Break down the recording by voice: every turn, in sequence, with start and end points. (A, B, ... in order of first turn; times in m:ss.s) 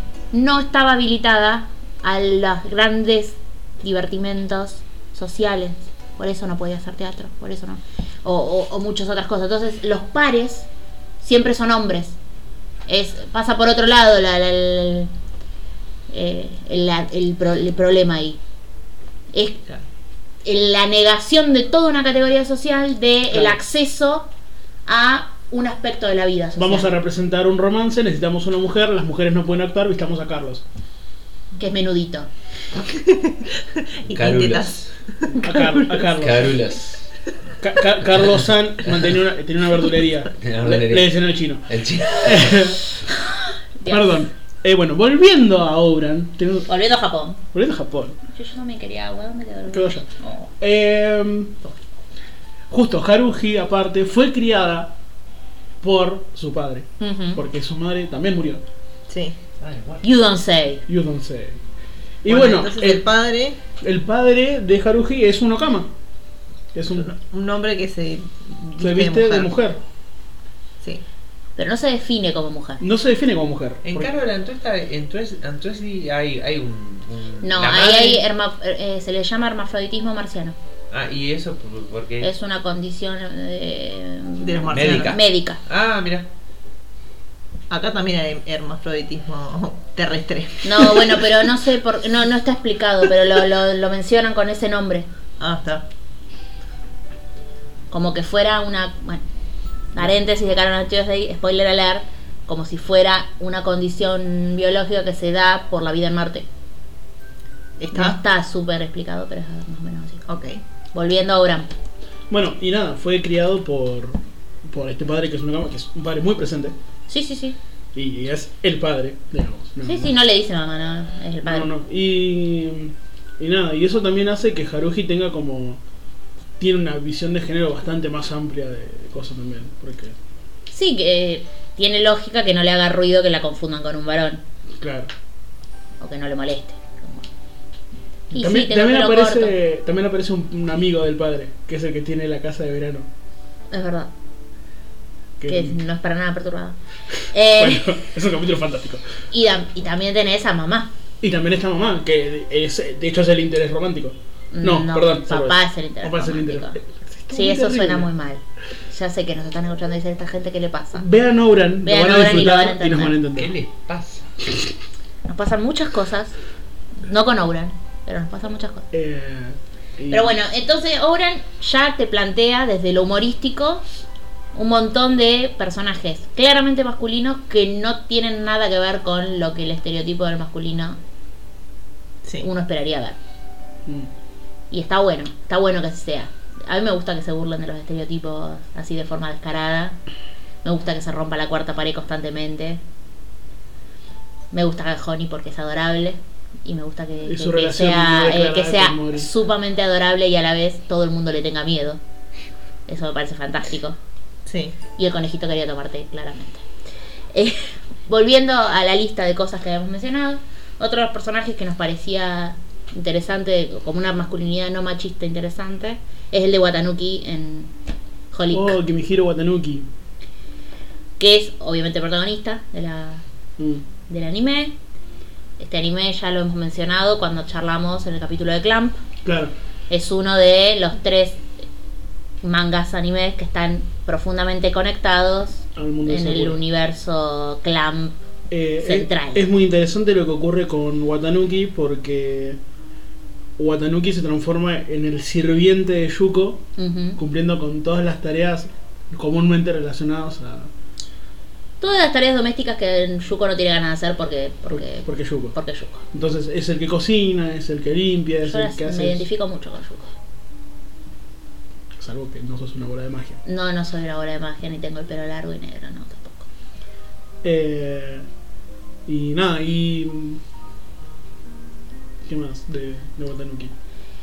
0:00.3-0:10.7 A
0:11.2-0:12.2 A
0:12.9-0:15.1 A
0:16.1-0:18.4 A
0:19.3-0:19.6 A
0:20.4-0:24.3 A
0:23.3-0:23.6 B
0:24.9-0:26.9 A
0:26.6-0:30.6 B
0:31.6-0:32.3 A
0:32.8-0:36.0 C
0:34.1-0:34.9 D
0:35.4-0:36.6 B
0:36.1-0:37.1 D
0:37.6-0:42.8 B
0:38.9-0:39.2 D
0:40.4-0:41.1 D
0:41.7-0:42.7 D
0:43.1-0:44.2 A
0:43.9-0:46.7 B
0:46.7-0:47.4 A
0:47.5-0:48.2 B
0:48.3-0:50.5 A
0:49.7-0:50.1 B
0:50.6-0:51.6 B
0:52.7-0:54.9 B
0:55.8-0:58.6 B
0:57.0-0:57.4 A
0:59.1-0:59.4 C
0:59.6-1:00.0 D
1:00.0-1:00.8 A
1:00.9-1:01.6 B
1:02.2-1:03.0 B
1:02.2-1:03.6 C
1:03.8-1:05.9 B
1:06.7-1:07.1 B
1:06.9-1:09.5 C
1:08.8-1:09.8 B
1:11.6-1:12.8 A
1:12.8-1:14.1 B
1:13.8-1:18.2 D
1:17.4-1:20.6 A
1:20.9-1:22.3 D
1:22.2-1:25.6 A
1:24.4-1:25.2 C
1:24.7-1:26.3 D
1:27.7-1:31.4 C
1:30.6-1:35.1 A
1:35.4-1:35.8 C
1:37.9-1:39.2 A
1:39.9-1:46.5 A
1:47.8-1:48.2 C
1:47.9-1:50.2 A
1:50.3-1:50.6 C
1:50.9-1:51.7 A
1:52.3-1:56.7 B
1:57.1-1:57.6 A
1:58.0-2:00.1 B
1:59.8-2:01.7 A
2:01.4-2:05.8 B
2:06.6-2:10.2 B
2:10.7-2:14.4 A
2:14.8-2:15.1 B
2:16.0-2:17.3 A
2:18.3-2:19.6 A
2:18.3-2:23.1 B
2:23.7-2:24.1 A
2:25.4-2:25.8 B
2:25.5-2:26.8 A
2:27.3-2:28.0 A
2:27.6-2:29.0 B
2:29.3-2:30.9 A
2:31.2-2:38.1 B
2:34.5-2:36.8 A
2:37.3-2:41.1 A
2:41.0-2:43.5 B
2:41.8-2:43.2 A
2:43.3-2:44.3 D
2:45.3-2:46.4 A
2:47.0-2:48.9 A
2:48.9-2:50.3 B
2:50.1-2:53.8 A
2:54.5-3:01.0 A
3:02.4-3:03.2 A
3:04.7-3:10.0 A
3:10.6-3:12.8 A
3:14.5-3:22.0 A
3:17.3-3:19.3 B
3:22.9-3:24.0 A
3:24.5-3:24.7 C
3:25.0-3:26.6 A
3:27.3-3:37.7 A
3:38.3-3:38.8 A
3:38.5-3:39.9 B
3:41.2-3:43.2 A
3:43.6-3:43.8 B
3:44.1-3:44.8 A
3:45.6-3:49.0 A
3:49.2-3:49.5 B
3:49.9-3:51.4 A
3:52.4-3:58.2 A
3:55.8-3:56.6 B
3:58.5-4:02.6 B
3:58.8-3:59.4 A
4:03.6-4:06.6 B
4:06.8-4:07.2 A
4:07.2-4:10.7 B
4:11.8-4:16.0 A
4:14.7-4:15.6 B
4:16.1-4:19.2 B
4:18.5-4:20.1 A
4:22.0-4:23.4 B
4:23.4-4:26.5 A
4:27.4-4:28.2 B
4:29.1-4:30.4 B
4:32.3-4:33.7 B